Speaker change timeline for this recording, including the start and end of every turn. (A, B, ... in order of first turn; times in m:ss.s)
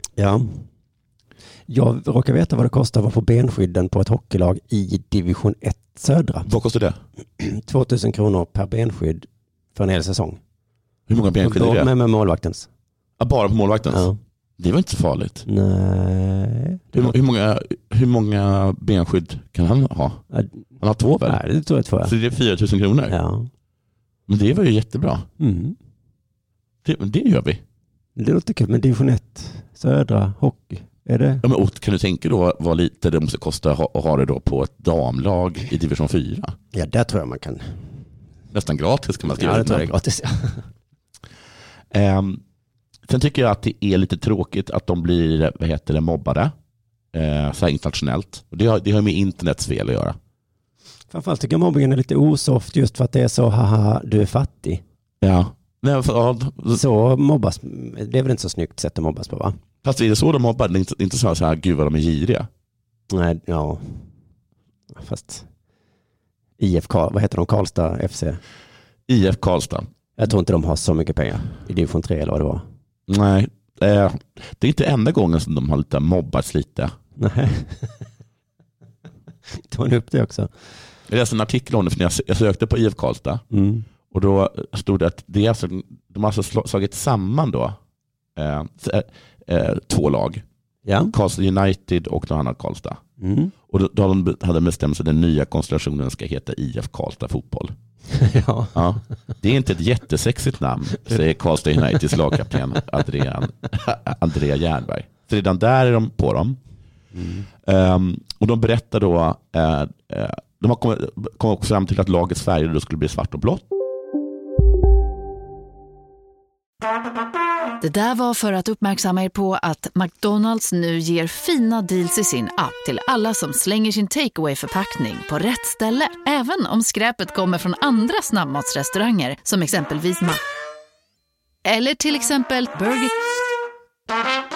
0:00.2-0:00.6 A
0:01.7-0:06.5 A
0:06.4-0:07.0 B
0:07.4-0:10.4 A
0:11.1-0:11.9 B
0:11.4-0:12.7 A
0:13.2-0:14.1 B
0:13.9-0:14.2 A
0:14.6-0:15.4 B
0:15.5-0:17.2 A
0:16.9-0:20.2 B
0:20.8-0:21.4 B
0:21.2-0:22.1 A
0:22.0-0:23.2 B
0:23.1-0:23.5 A
0:24.3-0:25.3 B
0:25.4-0:25.8 A
0:26.8-0:27.6 B
0:28.2-0:31.4 A
0:31.4-0:36.6 B
0:36.7-0:37.6 A
0:38.5-0:39.9 B
0:39.2-0:40.6 A
0:41.9-0:42.4 B
0:43.1-0:46.5 B
0:47.1-0:50.2 B
0:51.1-0:54.8 A
0:55.2-0:56.8 B
0:56.7-0:59.6 A
0:59.8-1:02.5 B
1:03.1-1:04.0 A
1:04.9-1:05.5 A
1:06.6-1:08.4 A
1:09.1-1:09.9 B
1:10.2-1:12.6 A
1:13.1-1:16.9 B
1:17.2-1:18.0 A
1:19.7-1:20.5 A
1:21.1-1:23.4 B
1:23.5-1:23.9 A
1:24.1-1:27.8 B
1:28.4-1:30.4 B
1:30.9-1:31.1 A
1:31.1-1:33.0 B
1:33.2-1:33.5 A
1:33.7-1:37.7 B
1:38.1-1:38.8 A
1:38.8-1:46.6 B
1:47.1-1:47.5 A
1:47.6-1:53.6 B
1:57.8-2:10.4 C
2:11.6-2:13.1 C